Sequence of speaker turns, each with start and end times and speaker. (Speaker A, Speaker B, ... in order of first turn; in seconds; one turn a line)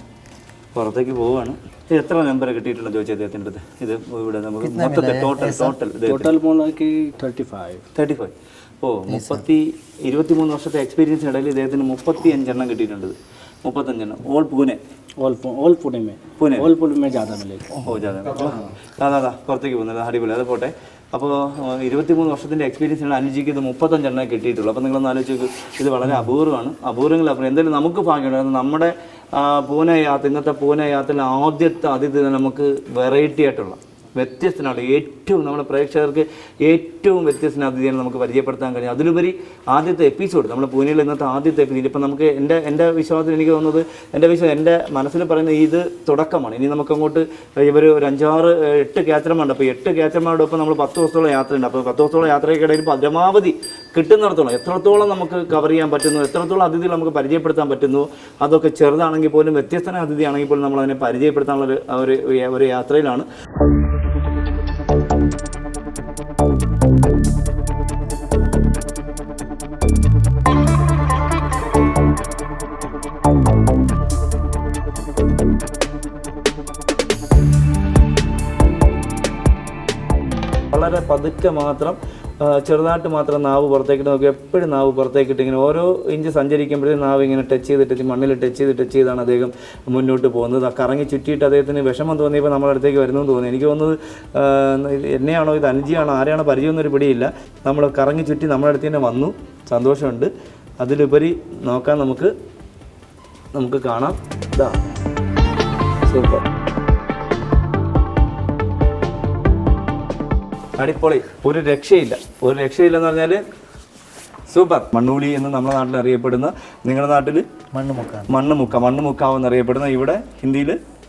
Speaker A: 0.8-6.3
Speaker B: 4.6-5.8
Speaker C: 6.1-7.8
Speaker A: 8.0-14.8
Speaker B: 9.1-9.4
Speaker C: 15.2-17.7
Speaker A: 16.4-16.7
Speaker A: 17.8-63.3
Speaker A: 80.7-102.3
Speaker A: 103.5-104.8
Speaker A: 106.1-106.4
Speaker A: 110.8-113.4
Speaker A: 114.5-117.5
Speaker B: 117.7-118.3
Speaker A: 118.3-120.8